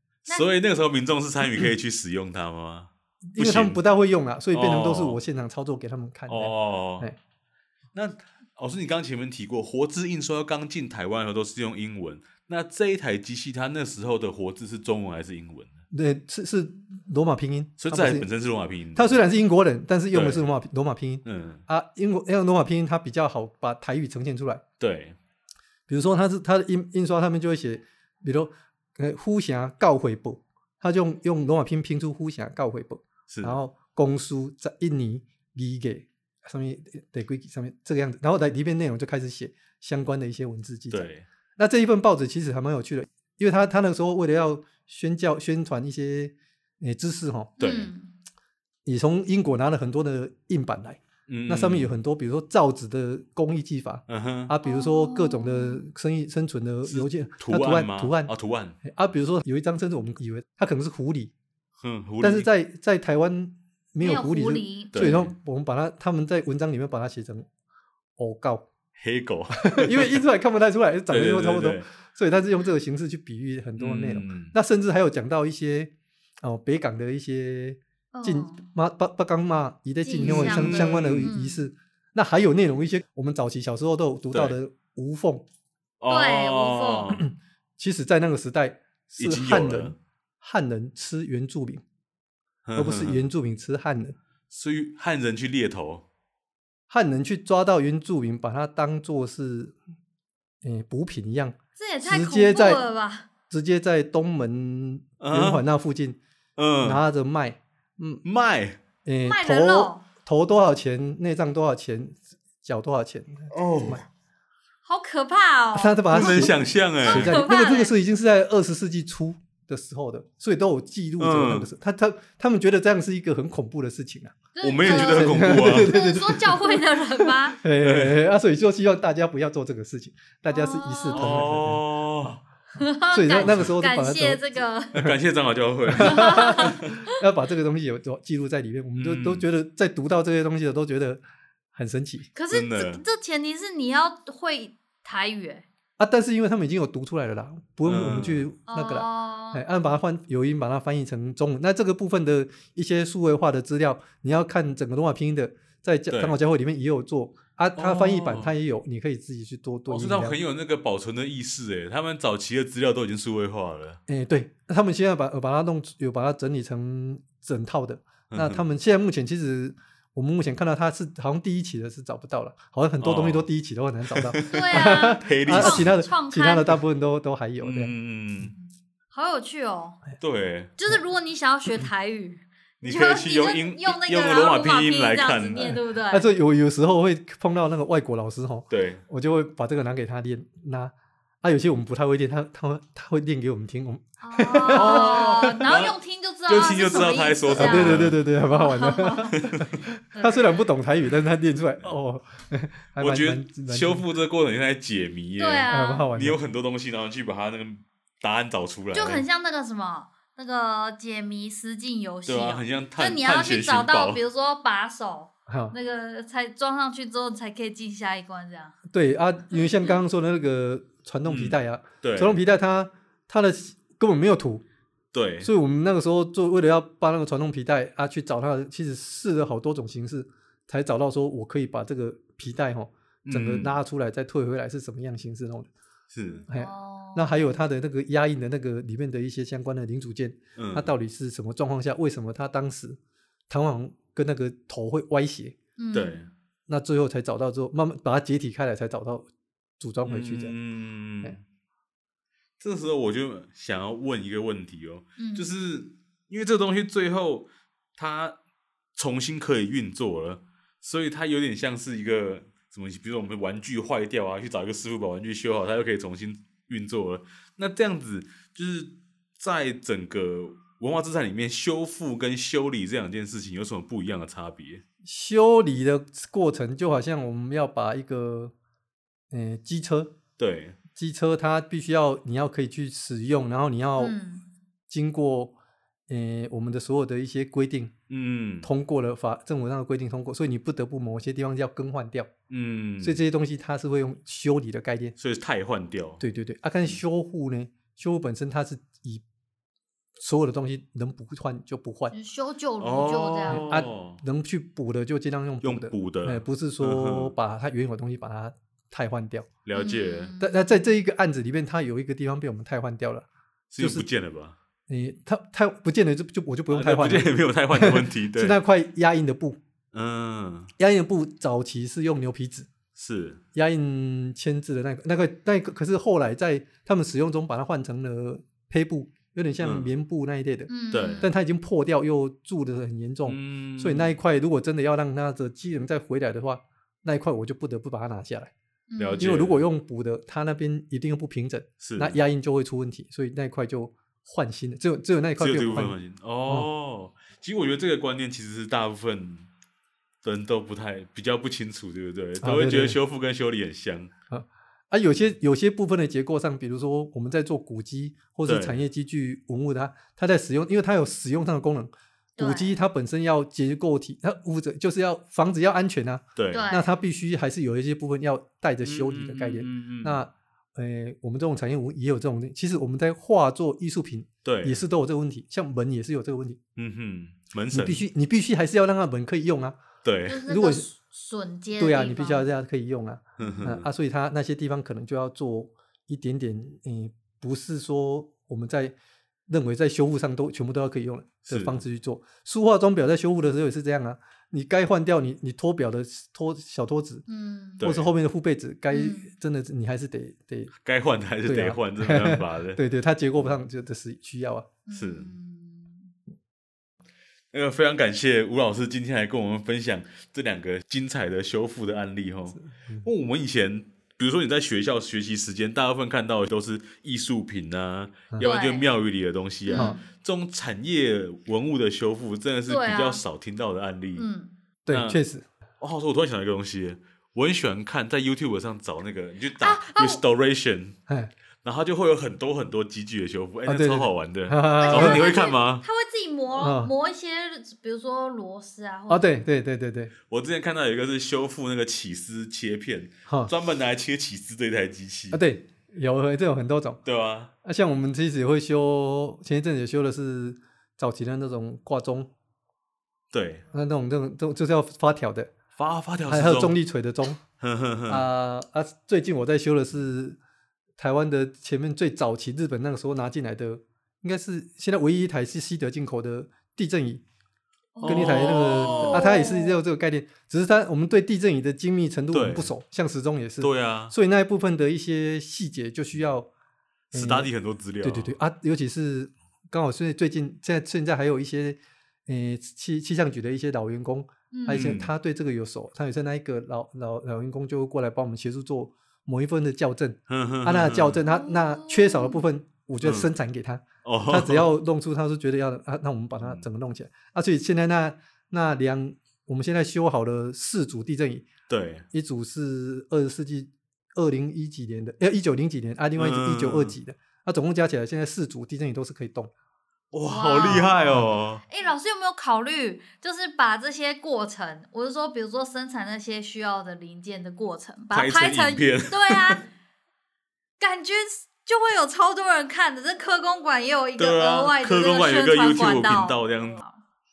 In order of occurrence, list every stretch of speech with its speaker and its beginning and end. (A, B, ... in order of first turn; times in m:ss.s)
0:00.3-0:03.8 A
0:03.3-0:07.2 B
0:04.5-0:05.2 A
0:06.3-0:07.1 A
0:07.9-0:15.8 A
0:15.9-0:18.3 B
0:17.8-0:19.2 A
0:19.0-0:24.6 B
0:20.1-0:20.4 A
0:21.2-0:21.6 A
0:24.8-0:25.2 A
0:25.9-0:47.5 B
0:33.3-0:33.6 A
0:40.9-0:41.2 A
0:47.6-0:48.1 C
0:47.6-0:47.9 A
0:48.9-0:58.3 B
0:51.3-0:51.9 A
0:54.1-0:54.5 A
0:54.6-0:55.8 C
0:56.8-0:58.8 A
0:58.8-1:01.3 B
1:01.8-1:02.5 A
1:02.2-1:07.5 B
1:04.0-1:05.3 C
1:04.9-1:05.3 A
1:08.2-1:08.7 B
1:09.0-1:10.2 A
1:09.7-1:15.9 B
1:11.1-1:11.9 A
1:13.8-1:14.6 A
1:16.4-1:25.4 B
1:18.1-1:18.7 C
1:20.0-1:21.6 C
1:20.2-1:21.3 A
1:24.3-1:24.6 A
1:26.0-1:27.2 A
1:26.1-1:27.2 C
1:27.1-1:31.8 B
1:29.2-1:30.0 A
1:32.6-1:33.2 A
1:32.8-1:34.2 B
1:34.5-1:36.0 A
1:36.9-1:39.8 B
1:40.6-1:42.8 B
1:41.8-1:43.3 C
1:43.5-1:46.2 B
1:45.2-1:45.6 A
1:46.6-1:47.0 A
1:46.8-1:48.2 B
1:48.2-1:48.8 A
1:49.0-1:54.0 B
1:49.2-1:50.0 C
1:53.5-1:54.0 A
1:54.8-1:56.5 C
1:55.7-2:11.8 B
1:56.1-1:57.4 A
1:57.0-1:57.9 C
2:01.2-2:01.7 A
2:04.6-2:07.6 C
2:04.6-2:06.0 A
2:07.8-2:08.2 A
2:10.5-2:11.3 C
2:11.1-2:12.4 A
2:12.8-2:15.0 C
2:13.1-2:15.1 B
2:13.4-2:13.7 A
2:15.0-2:16.8 A
2:15.9-2:21.2 B
2:16.0-2:17.0 C
2:19.0-2:19.5 A
2:21.7-2:22.3 B
2:22.4-2:25.7 C
2:22.5-2:23.0 A
2:26.0-2:40.4 B
2:27.8-2:28.5 A
2:28.7-2:29.6 C
2:36.1-2:36.4 A
2:37.8-2:38.6 A
2:39.9-2:44.0 A
2:44.1-2:57.9 B
2:48.3-2:48.6 A
2:53.0-2:53.5 A
2:54.1-2:56.0 A
2:54.5-2:56.8 C
2:57.6-2:58.5 A
2:58.6-3:00.0 C
3:00.2-3:00.7 A
3:00.8-3:06.3 C
3:02.8-3:05.8 A
3:05.6-3:15.5 B
3:08.7-3:09.0 A
3:14.2-3:20.5 C
3:14.7-3:18.2 A
3:17.5-3:24.1 B
3:19.4-3:19.6 A
3:23.0-3:29.2 A
3:25.4-3:26.1 C
3:25.7-3:26.4 B
3:28.9-3:38.8 C
3:32.3-3:34.2 A
3:35.5-3:35.8 B
3:38.9-3:44.6 B
3:41.3-3:42.4 A
3:45.1-3:45.5 A
3:45.4-3:55.7 B
3:53.2-3:53.7 A
3:56.1-3:56.4 A
3:56.3-3:57.4 C
3:56.5-4:05.6 B
4:00.6-4:00.9 A
4:05.8-4:06.2 C
4:05.9-4:06.3 A
4:06.7-4:10.5 B
4:10.0-4:11.4 A
4:12.6-4:18.4 A
4:15.2-4:15.5 C
4:19.0-4:34.8 A
4:35.1-4:38.5 B
4:39.3-4:40.1 B
4:40.4-4:40.8 A
4:41.0-4:44.2 B
4:44.0-4:44.5 C
4:44.9-4:45.6 B
4:46.1-4:47.9 B
4:48.1-4:48.7 A
4:48.6-4:52.3 B
4:52.5-4:53.2 A
4:53.0-4:55.2 B
4:55.2-4:56.2 A
4:56.2-4:59.2 B
5:00.2-5:02.2 B
5:02.1-5:03.7 C
5:02.8-5:04.2 A
5:03.5-5:09.5 B
5:05.6-5:07.4 A
5:09.6-5:10.3 A
5:09.7-5:10.6 C
5:10.4-5:13.3 B
5:13.7-5:14.6 A
5:13.8-5:14.1 B
5:14.9-5:19.6 B
5:16.7-5:18.6 A
5:19.9-5:20.7 A
5:20.8-5:22.7 B
5:23.0-5:23.4 A
5:23.5-5:38.5 B
5:29.6-5:29.9 A
5:30.7-5:31.3 C
5:30.9-5:31.3 A
5:33.3-5:34.1 A
5:38.9-5:39.3 C
5:39.0-5:39.7 A
5:39.2-5:46.0 B
5:41.8-5:42.2 A
5:45.4-5:49.5 A
5:50.2-5:54.1 A
5:52.4-5:53.0 B
5:54.3-6:16.6 B
5:58.4-5:58.8 A
6:02.4-6:02.8 C
6:06.4-6:06.7 A
6:06.5-6:06.9 C
6:08.8-6:10.2 A
6:14.4-6:14.8 A
6:16.8-6:18.1 A
6:17.7-6:19.8 B
6:20.0-6:20.4 A
6:20.3-6:22.4 C
6:20.5-6:20.9 B
6:21.8-6:29.0 B
6:23.4-6:23.9 A
6:29.5-6:37.2 B
6:31.5-6:31.8 A
6:37.3-6:37.8 C
6:37.8-6:38.1 A
6:37.8-6:40.7 B
6:38.9-6:39.3 C
6:40.8-6:42.8 A
6:41.5-6:44.7 B
6:44.9-6:46.1 C
6:44.9-6:45.3 A
6:47.5-7:04.3 A
6:52.6-6:53.1 B
6:58.4-6:58.9 C
6:59.7-7:00.0 C
7:02.7-7:03.2 C
7:04.2-7:04.5 C
7:04.8-7:05.5 B
7:04.9-7:05.2 A
7:05.8-7:11.0 A
7:09.6-7:10.2 C
7:11.6-7:15.8 A
7:13.7-7:15.3 B
7:14.8-7:19.4 C
7:16.6-7:16.9 B
7:19.1-7:20.1 B
7:20.3-7:25.4 A
7:25.3-7:27.0 B
7:27.0-7:27.5 A
7:27.6-7:32.3 B
7:33.3-7:33.7 A
7:33.7-7:35.5 B
7:35.8-7:36.8 A
7:36.3-7:37.4 B
7:37.4-7:38.3 A
7:38.1-7:40.4 B
7:41.0-7:47.2 B
7:48.0-7:49.8 C
7:48.0-7:49.5 A
7:48.0-7:56.5 B
7:52.3-7:52.7 A
7:53.6-7:54.1 A
7:57.1-7:57.5 B
7:57.1-7:58.4 A
7:58.0-8:21.5 B
8:04.5-8:05.0 C
8:04.7-8:05.1 A
8:10.3-8:11.2 A
8:11.3-8:12.4 C
8:13.0-8:13.3 A
8:14.0-8:14.7 A
8:21.7-8:22.1 A
8:22.1-8:29.5 B
8:26.2-8:27.0 A
8:30.1-8:31.6 A
8:30.3-8:31.0 C
8:30.7-8:31.3 B
8:31.7-8:39.7 C
8:38.1-8:39.6 A
8:40.8-8:47.0 C
8:44.2-8:46.8 A